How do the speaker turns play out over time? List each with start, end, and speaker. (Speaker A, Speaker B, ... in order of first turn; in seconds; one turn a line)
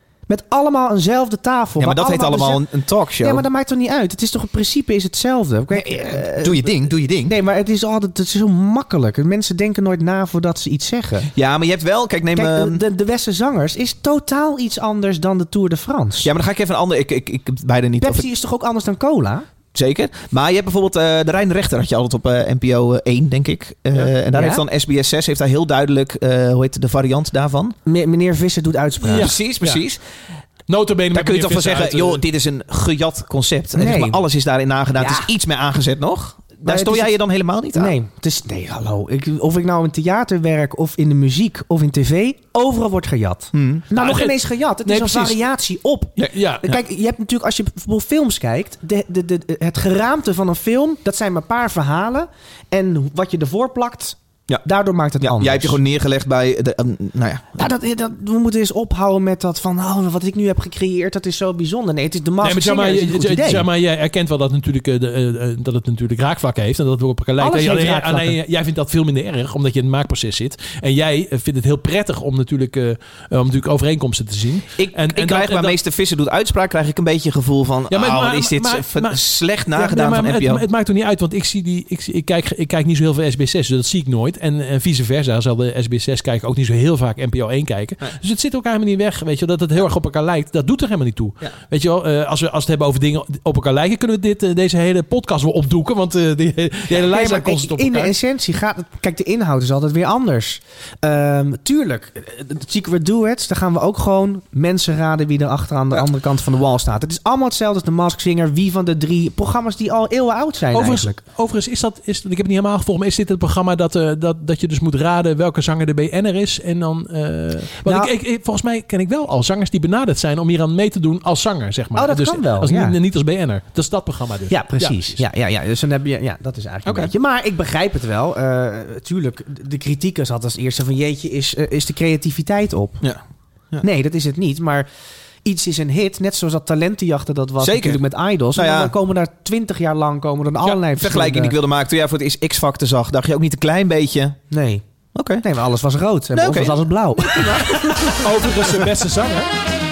Speaker A: 0.3-2.7
Speaker B: 1.8-3.4
Speaker A: 3.2-11.3
Speaker B: 5.7-7.3
Speaker B: 11.3-12.8
Speaker A: 12.3-16.3
Speaker B: 16.2-18.2
Speaker A: 18.0-19.4
Speaker B: 19.7-27.8
Speaker A: 24.3-24.6
Speaker A: 27.9-29.3
Speaker B: 29.1-30.0
Speaker C: 29.1-29.8
Speaker C: 30.7-32.2
Speaker B: 31.1-37.9
Speaker A: 33.7-34.2
Speaker A: 35.0-35.3
Speaker A: 36.6-37.2
Speaker A: 37.7-55.8
Speaker B: 43.5-43.8
Speaker C: 43.9-45.4
Speaker C: 46.3-46.7
Speaker B: 55.2-57.7
Speaker A: 57.6-63.7
Speaker C: 62.4-75.8
Speaker A: 67.4-68.4
Speaker B: 74.8-80.6
Speaker C: 77.9-98.1
Speaker A: 96.9-111.2
Speaker C: 110.7-125.2
Speaker A: 117.8-118.1
Speaker A: 121.9-123.0
Speaker A: 124.5-133.0
Speaker B: 126.8-127.1
Speaker A: 133.8-134.9
Speaker A: 135.4-141.5
Speaker B: 137.6-138.0
Speaker B: 138.5-138.9
Speaker B: 140.9-144.4
Speaker A: 144.5-144.8
Speaker B: 145.1-145.4
Speaker A: 145.4-148.5
Speaker B: 146.3-146.8
Speaker C: 148.1-149.5